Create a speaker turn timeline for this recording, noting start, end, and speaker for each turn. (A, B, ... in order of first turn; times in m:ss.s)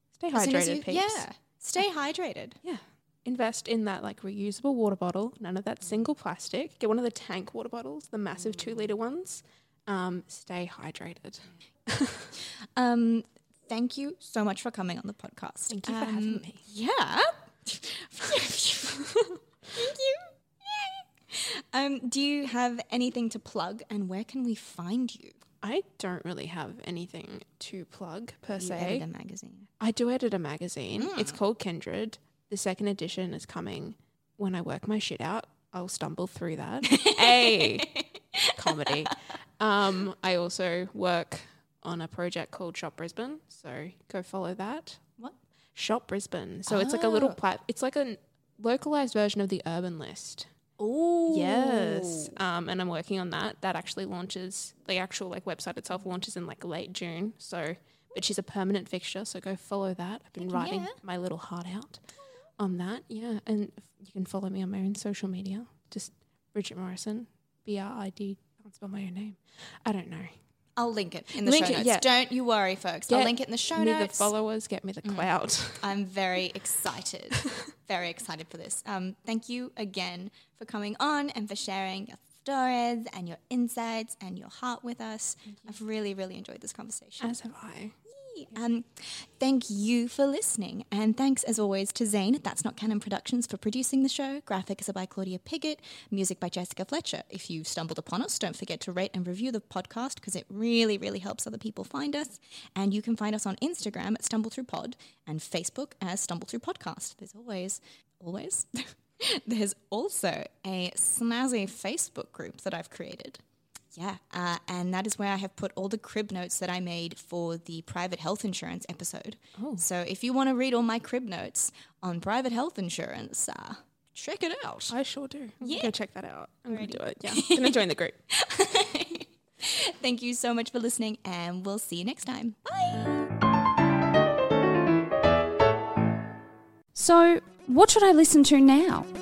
0:00.2-0:01.3 A
0:00.3-0:02.6 B
0:02.6-0:12.3 A
0:08.4-0:08.9 B
0:12.7-0:19.0 B
0:15.7-0:16.6 A
0:19.7-0:25.4 B
0:25.6-0:29.0 A
0:28.6-0:29.7 B
0:29.8-0:45.0 A
0:31.0-0:31.4 B
0:36.9-0:38.9 B
0:45.7-0:50.5 A
0:46.6-0:47.4 B
0:50.8-0:52.3 B
0:51.3-1:10.4 A
1:00.4-1:01.0 B
1:10.8-1:14.3 B
1:11.4-1:12.1 A
1:13.1-1:15.9 A
1:15.0-1:27.4 B
1:25.5-1:25.7 A
1:27.2-1:28.0 A
1:28.1-1:53.4 B
1:53.9-2:05.0 B
1:59.6-1:59.8 A
2:04.9-2:08.2 A
2:05.6-2:06.0 B
2:06.7-2:07.8 B
2:08.3-2:13.3 B
2:16.9-2:19.1 C